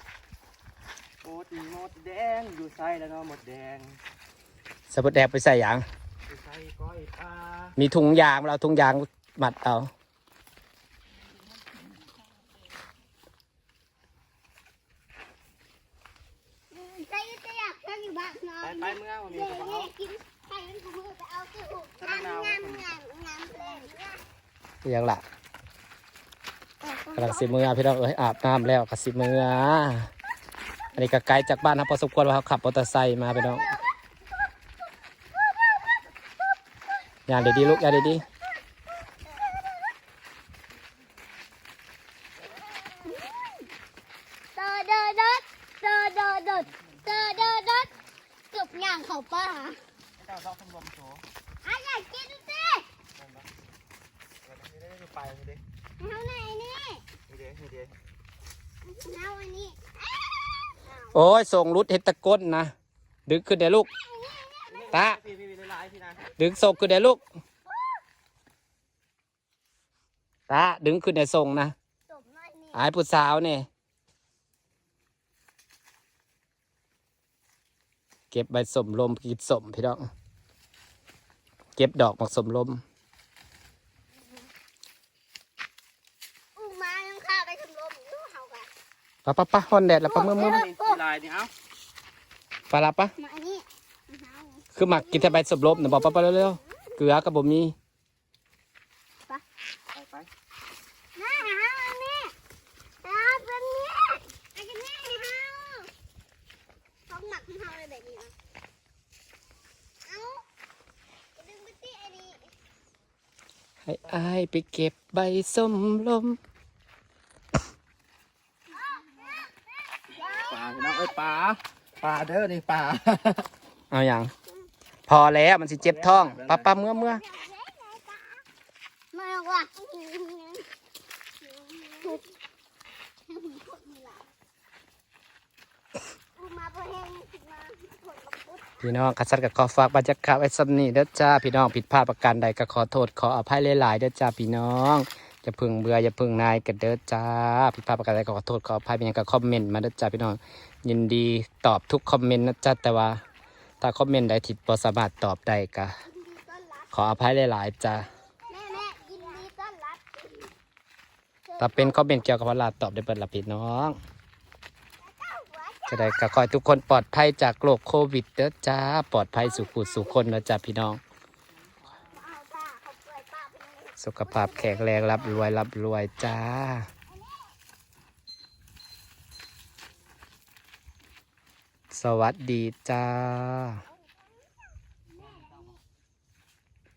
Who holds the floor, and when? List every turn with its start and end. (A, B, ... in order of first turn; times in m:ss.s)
0:01.2-0:04.0 A
0:04.9-0:05.8 B
0:06.3-0:07.8 A
0:07.8-0:09.9 B
0:16.7-0:24.2 C
0:18.6-0:19.9 A
0:22.0-0:22.9 A
0:24.8-0:25.2 B
0:26.8-0:27.5 C
0:27.2-0:30.1 B
0:30.9-0:33.7 B
0:37.3-0:38.2 B
0:37.4-0:38.2 C
0:43.0-0:43.6 C
0:44.6-0:47.9 C
0:46.7-0:48.1 A
0:48.5-0:49.8 C
0:50.2-0:51.2 A
0:51.6-0:52.9 C
0:53.2-0:53.5 A
0:54.4-0:55.6 A
0:56.0-0:57.0 C
0:57.3-0:58.0 A
0:58.8-1:01.2 C
1:01.1-1:02.7 B
1:03.3-1:03.9 B
1:04.0-1:04.9 C
1:04.7-1:06.3 A
1:04.9-1:05.2 B
1:06.4-1:07.2 B
1:10.5-1:11.7 B
1:12.1-1:12.8 C
1:12.7-1:13.7 B
1:18.3-1:20.1 B
1:21.8-1:22.8 B
1:26.6-1:28.7 C
1:29.2-1:30.6 B
1:30.0-1:31.0 C
1:30.3-1:31.5 A
1:32.7-1:33.1 B
1:33.2-1:36.8 C
1:34.8-1:37.8 B
1:39.9-1:40.3 A
1:41.2-1:42.4 C
1:43.0-1:45.9 C
1:47.1-1:48.3 C
1:50.1-1:50.5 C
1:51.4-1:52.5 C
1:53.9-1:56.4 B
1:58.7-1:59.5 C
2:00.1-2:00.6 C
2:00.3-2:03.5 A
2:03.9-2:04.3 B
2:05.1-2:07.2 B
2:05.8-2:06.7 A
2:06.9-2:08.4 C
2:09.1-2:10.7 C
2:11.4-2:12.2 C
2:13.3-2:14.3 C
2:16.4-2:18.7 C
2:18.8-2:33.2 B
2:33.8-2:35.9 B
2:36.1-2:37.1 C
2:36.9-2:38.0 B
2:38.5-2:40.5 C
2:41.5-2:42.0 C
2:41.6-2:44.0 B
2:45.0-2:46.1 C
2:45.9-2:51.0 B
2:49.4-2:50.2 C
2:52.1-2:55.5 C
2:54.0-2:56.9 B
2:57.1-2:57.5 C
3:01.9-3:03.8 B
3:05.1-3:05.7 C